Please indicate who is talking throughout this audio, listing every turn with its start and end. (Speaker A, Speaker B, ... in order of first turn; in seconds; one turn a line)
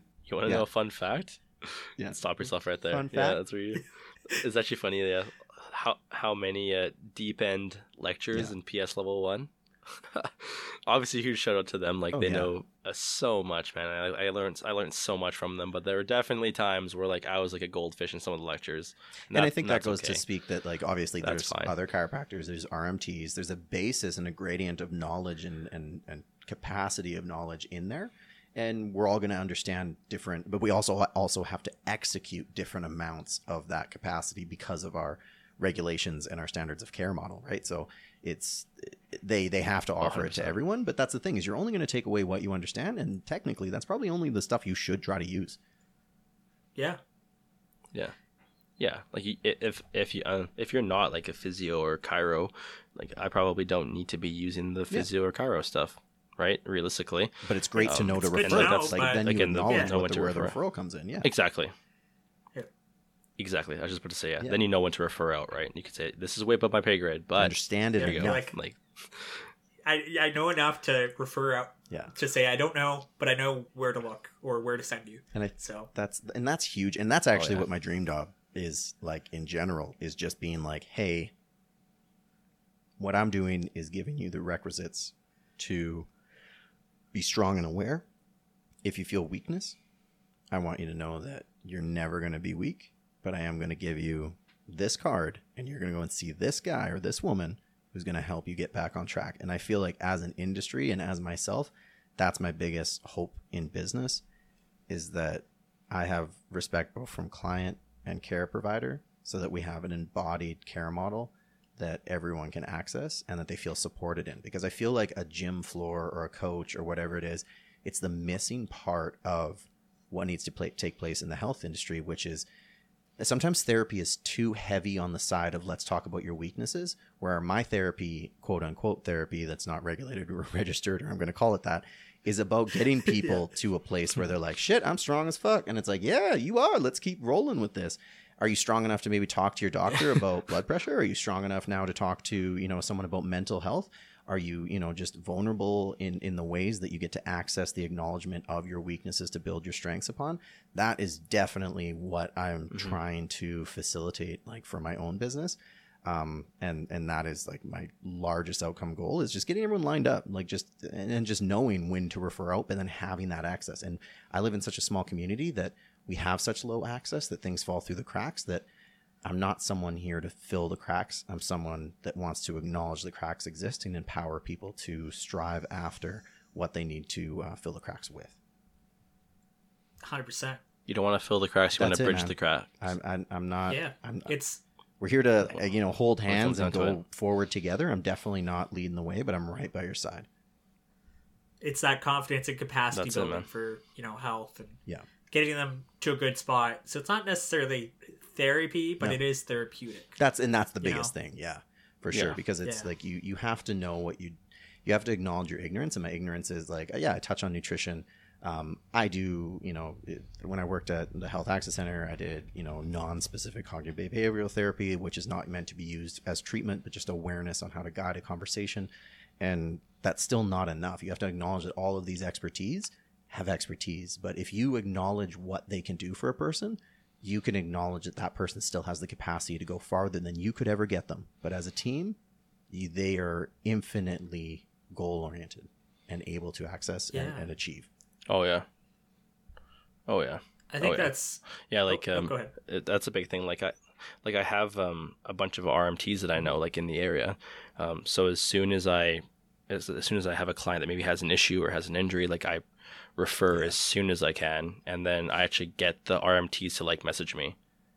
Speaker A: 0.3-20.2
Speaker B: 2.0-3.4
Speaker B: 12.1-12.5
Speaker B: 19.3-45.6
Speaker A: 21.2-21.7
Speaker A: 40.0-40.5
Speaker A: 48.8-60.6
Speaker B: 57.5-61.3
Speaker C: 58.3-59.9
Speaker A: 61.2-61.7
Speaker A: 63.4-69.5
Speaker B: 67.4-68.4
Speaker C: 68.0-68.5
Speaker C: 69.8-75.9
Speaker B: 75.3-81.3
Speaker A: 77.3-77.7
Speaker B: 83.0-86.1
Speaker B: 87.1-88.1
Speaker B: 88.8-89.8
Speaker B: 90.5-104.2
Speaker B: 104.9-122.5
Speaker B: 123.2-168.7
Speaker C: 133.1-133.4
Speaker B: 169.2-178.3
Speaker C: 180.0-180.6
Speaker A: 180.9-182.8
Speaker B: 181.8-184.3
Speaker C: 183.7-184.6
Speaker B: 185.0-190.3
Speaker A: 186.3-187.0
Speaker C: 191.6-194.8
Speaker A: 192.9-193.5
Speaker C: 195.3-200.2
Speaker B: 200.2-232.2
Speaker C: 200.8-201.1
Speaker A: 202.1-202.4
Speaker C: 202.6-202.9
Speaker B: 232.7-237.9
Speaker C: 237.1-237.5
Speaker A: 238.3-238.7
Speaker A: 240.1-252.6
Speaker C: 240.7-242.5
Speaker A: 253.2-257.6
Speaker B: 253.5-253.8